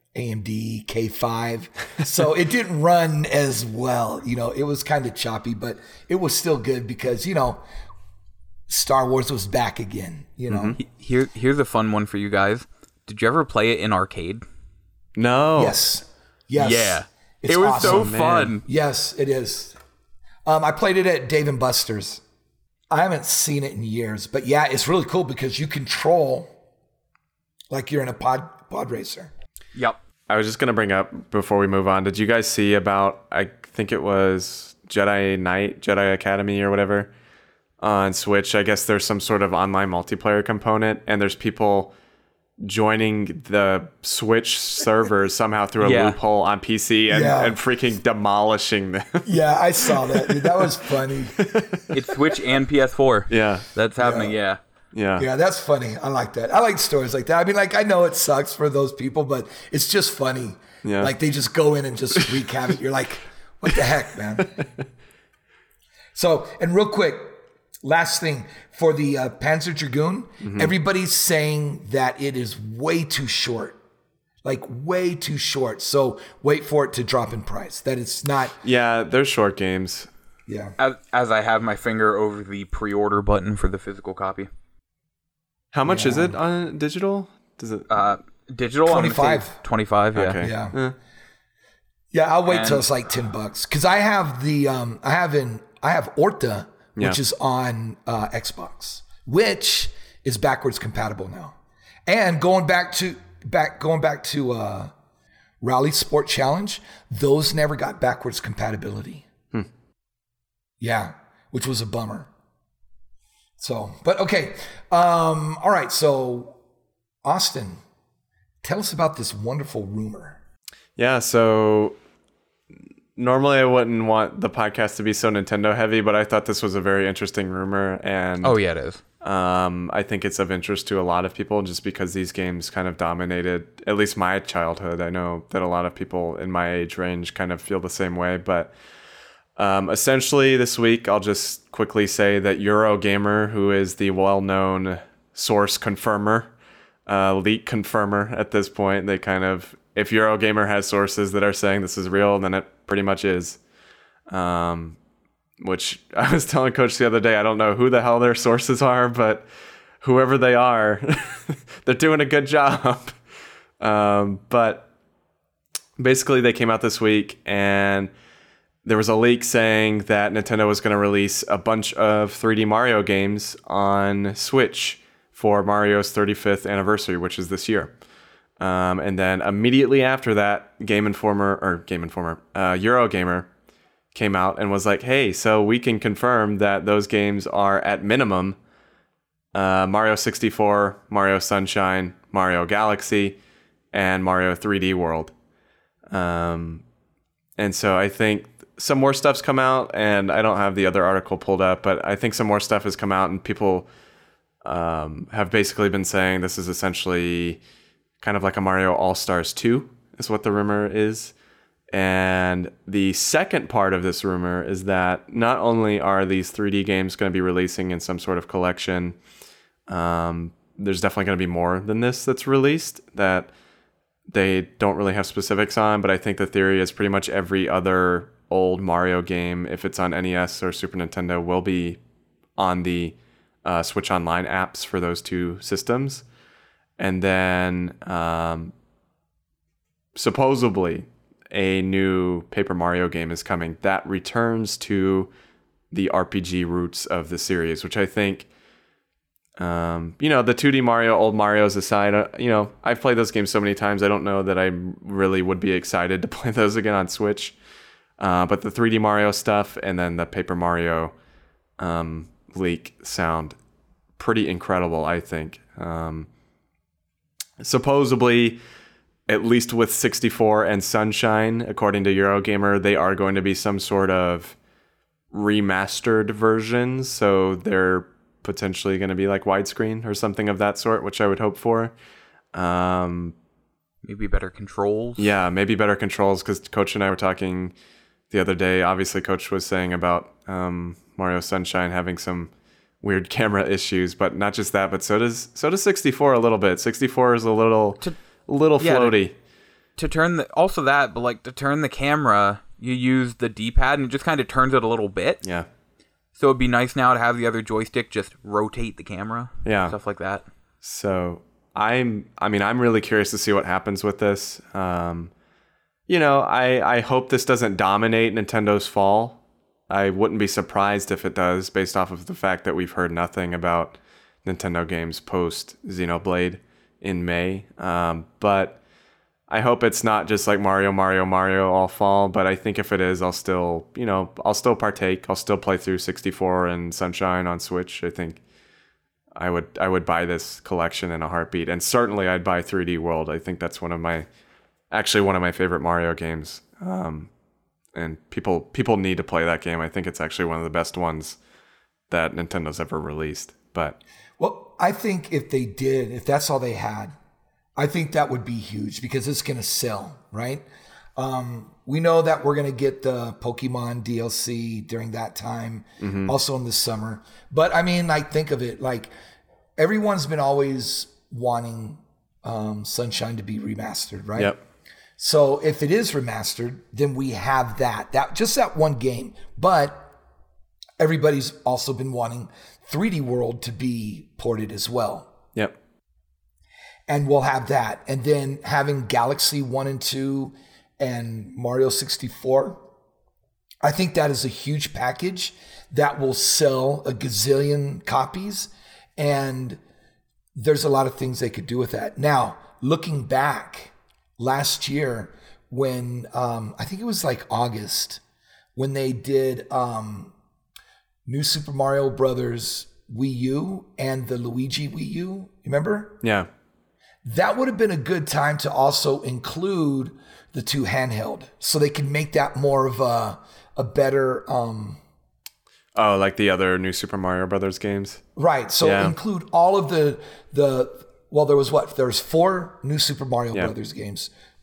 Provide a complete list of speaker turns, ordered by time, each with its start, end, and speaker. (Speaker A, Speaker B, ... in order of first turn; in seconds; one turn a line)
Speaker A: 0.1-7.6
Speaker A: 8.7-10.8
Speaker B: 10.5-10.8
Speaker C: 10.8-14.4
Speaker B: 15.2-15.8
Speaker A: 15.6-18.1
Speaker C: 16.6-18.6
Speaker B: 17.8-18.5
Speaker A: 18.6-19.8
Speaker A: 20.4-22.2
Speaker A: 22.9-26.5
Speaker A: 27.7-29.3
Speaker B: 30.3-37.1
Speaker B: 37.8-41.9
Speaker B: 42.6-49.3
Speaker C: 45.8-46.2
Speaker A: 47.1-47.6
Speaker A: 49.2-51.7
Speaker B: 49.9-50.6
Speaker B: 51.4-51.9
Speaker C: 51.9-54.6
Speaker B: 53.3-53.7
Speaker A: 54.0-54.3
Speaker B: 54.9-55.2
Speaker A: 55.2-64.5
Speaker B: 60.8-61.1
Speaker A: 66.1-73.8
Speaker B: 70.4-70.7
Speaker A: 74.4-78.6
Speaker B: 78.6-80.1
Speaker A: 80.5-80.8
Speaker C: 80.8-84.5
Speaker B: 85.7-87.9
Speaker A: 85.8-86.4
Speaker C: 87.9-90.4
Speaker A: 88.8-89.6
Speaker B: 90.1-91.0
Speaker A: 90.4-90.8
Speaker A: 92.1-104.9
Speaker C: 92.5-92.8
Speaker A: 105.6-109.3
Speaker A: 110.8-112.3
Speaker A: 113.6-116.6
Speaker A: 117.2-117.8
Speaker A: 118.6-120.4
Speaker B: 121.0-122.0
Speaker B: 123.2-128.6
Speaker C: 128.4-129.0
Speaker B: 129.2-138.7
Speaker B: 139.6-146.5
Speaker B: 147.1-153.6
Speaker B: 154.3-155.0
Speaker B: 155.6-159.4
Speaker B: 160.0-163.2
Speaker B: 163.8-164.9
Speaker B: 166.0-168.1
Speaker B: 168.8-177.9
Speaker B: 178.6-183.5
Speaker B: 184.1-188.6
Speaker B: 189.5-193.4
Speaker B: 193.9-195.3
Speaker B: 196.1-196.8
Speaker B: 197.6-203.9
Speaker B: 204.6-207.6
Speaker B: 208.2-211.3
Speaker B: 211.9-219.2
Speaker B: 219.9-223.5
Speaker B: 224.3-232.0
Speaker B: 232.6-236.2
Speaker B: 237.0-238.7
Speaker B: 240.1-245.3
Speaker B: 245.9-248.5
Speaker B: 249.6-257.6
Speaker B: 258.2-261.1
Speaker B: 261.8-263.6
Speaker B: 264.2-266.3
Speaker B: 267.6-268.6
Speaker B: 269.3-274.6
Speaker B: 275.3-281.9
Speaker B: 282.5-283.3
Speaker C: 284.0-285.3
Speaker B: 285.2-287.7
Speaker B: 288.3-299.3
Speaker C: 298.8-299.1
Speaker C: 300.0-305.4
Speaker C: 306.4-310.4
Speaker B: 309.6-309.9
Speaker B: 310.8-315.3
Speaker B: 316.1-328.8
Speaker B: 329.5-338.4
Speaker B: 339.3-344.2
Speaker B: 344.9-347.3
Speaker B: 347.9-351.4
Speaker B: 352.1-354.0
Speaker A: 354.4-357.1
Speaker A: 357.8-360.6
Speaker A: 361.1-369.1
Speaker B: 366.0-366.3
Speaker A: 369.8-374.5
Speaker A: 375.2-380.1
Speaker A: 381.0-385.3
Speaker A: 387.1-392.8
Speaker A: 393.8-399.8
Speaker A: 400.5-408.2
Speaker A: 408.8-410.3
Speaker A: 411.2-416.2
Speaker A: 417.2-425.0
Speaker B: 425.9-428.2
Speaker A: 428.4-434.3
Speaker B: 428.8-429.1